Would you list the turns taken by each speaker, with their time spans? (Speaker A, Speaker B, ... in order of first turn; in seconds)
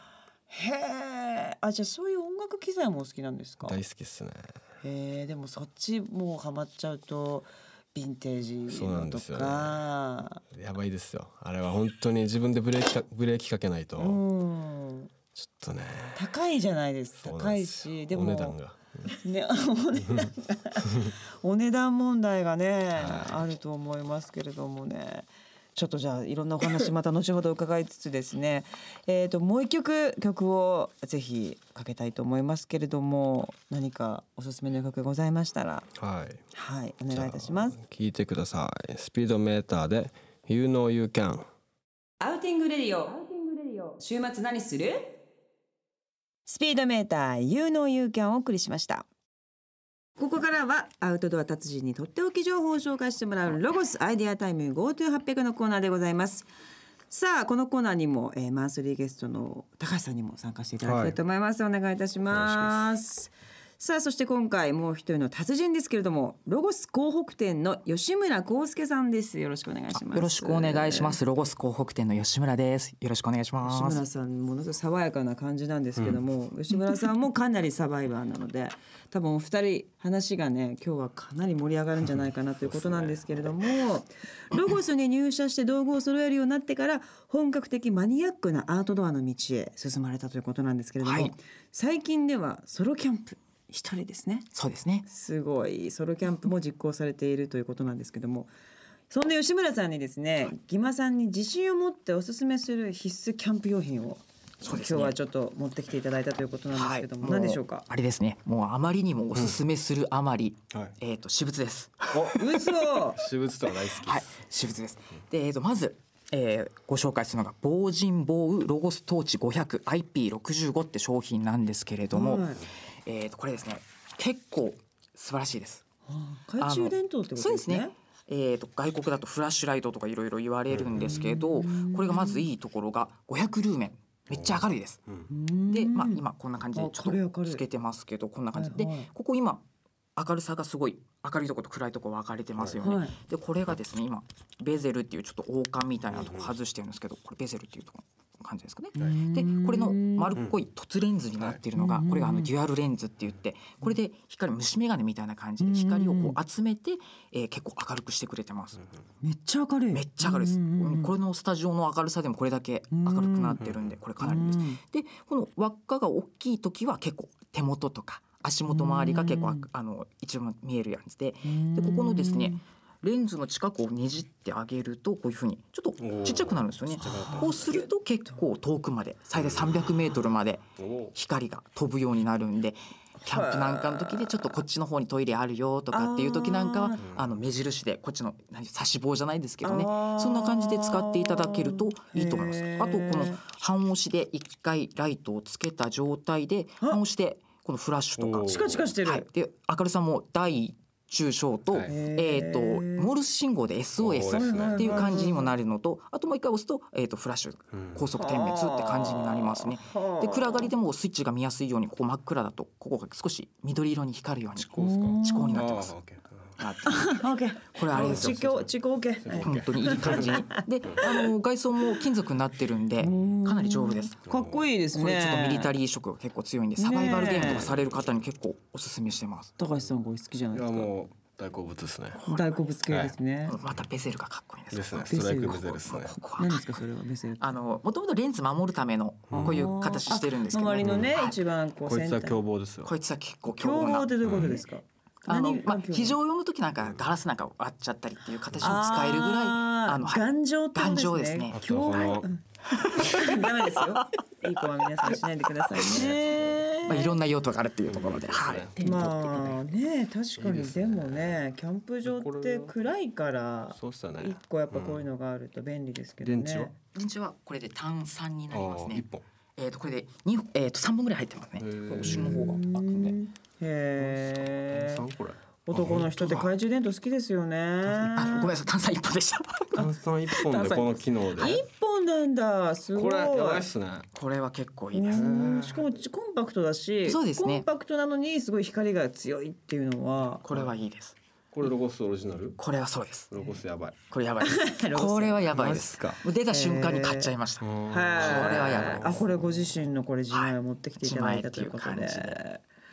Speaker A: 0.5-3.8, 4.8-10.4, 14.0-15.1, 16.1-18.6, 19.1-35.9, 36.5-37.8, 42.2-45.2, 46.5-49.1, 50.2-56.5, 57.1-71.2, 73.6-94.5, 95.1-98.5, 99.1-107.8, 112.3-113.2, 122.1-122.6, 126.1-127.9, 131.0-132.5, 135.3-136.2, 136.8-137.6, 138.5-139.1, 142.8-143.2, 149.0-150.4, 151.8-152.5, 155.6-156.4, 159.2-161.1, 162.9-163.6, 164.2-164.8, 168.7-169.7, 171.4-172.6, 177.0-177.9, 183.2-184.6, 185.9-187.0, 189.6-193.4, 198.4-199.3, 201.9-203.1, 204.3-205.5, 208.2-210.7, 214.8-215.7, 216.9-221.3, 223.0-225.7, 226.8-227.7, 229.6-230.9, 232.2-233.6, 235.1-235.8, 236.4-237.6, 239.4-242.4, 243.5-246.2, 248.6-257.2, 258.8-266.7, 272.0-275.1, 275.7-278.5, 281.4-283.7, 284.9-290.4, 294.4-295.6, 296.5-297.3, 297.9-302.6
Speaker B: 3.6-4.5, 8.7-9.9, 10.5-14.2, 15.3-16.3, 17.2-19.1, 20.0-20.3, 20.9-21.1, 22.9-23.5, 36.0-36.4, 37.1-41.5, 60.8-61.2, 62.3-62.9, 82.1-83.5, 112.1-112.4, 113.1-114.4, 130.7-131.2, 134.3-135.3, 146.1-146.5, 163.6-164.0, 176.0-177.8, 179.3-180.1, 180.8-181.1, 187.0-187.3, 198.2-198.9, 204.0-205.3, 207.7-208.1, 214.6-216.6, 217.9-221.0, 224.3-224.6, 227.0-228.2, 230.5-232.2, 232.9-233.1, 234.7-236.2, 239.3-239.7, 240.8-241.2, 241.8-242.9, 244.2-244.6, 248.5-248.9, 251.5-252.3, 255.8-256.6, 257.9-259.1, 260.4-261.5, 262.0-262.8, 263.7-265.1, 266.2-266.7, 268.5-269.3, 271.6-272.6, 274.0-276.2, 277.9-278.2, 279.8-281.6, 282.9-284.1, 285.1-285.9, 290.5-290.7, 291.5-292.6, 293.3-294.0, 295.5-296.2, 297.6-299.6
Speaker C: 69.9-74.0, 91.0-91.3, 94.5-95.1, 104.6-105.2, 106.7-112.8, 113.7-122.5, 123.0-125.8, 126.6-135.0, 135.7-139.6, 140.2-158.8, 159.9-215.9, 216.6-218.4, 219.4-224.2, 224.9-229.5, 233.5-236.8, 237.4-241.4, 242.8-244.6, 245.3-252.1, 252.7-254.0, 255.1-256.1, 256.9-259.6, 266.9-269.1, 269.6-273.2, 276.2-276.5, 278.1-281.6, 284.1-285.3, 287.1-287.7, 290.4-291.2, 292.6-293.3, 294.1-299.2, 300.3-302.4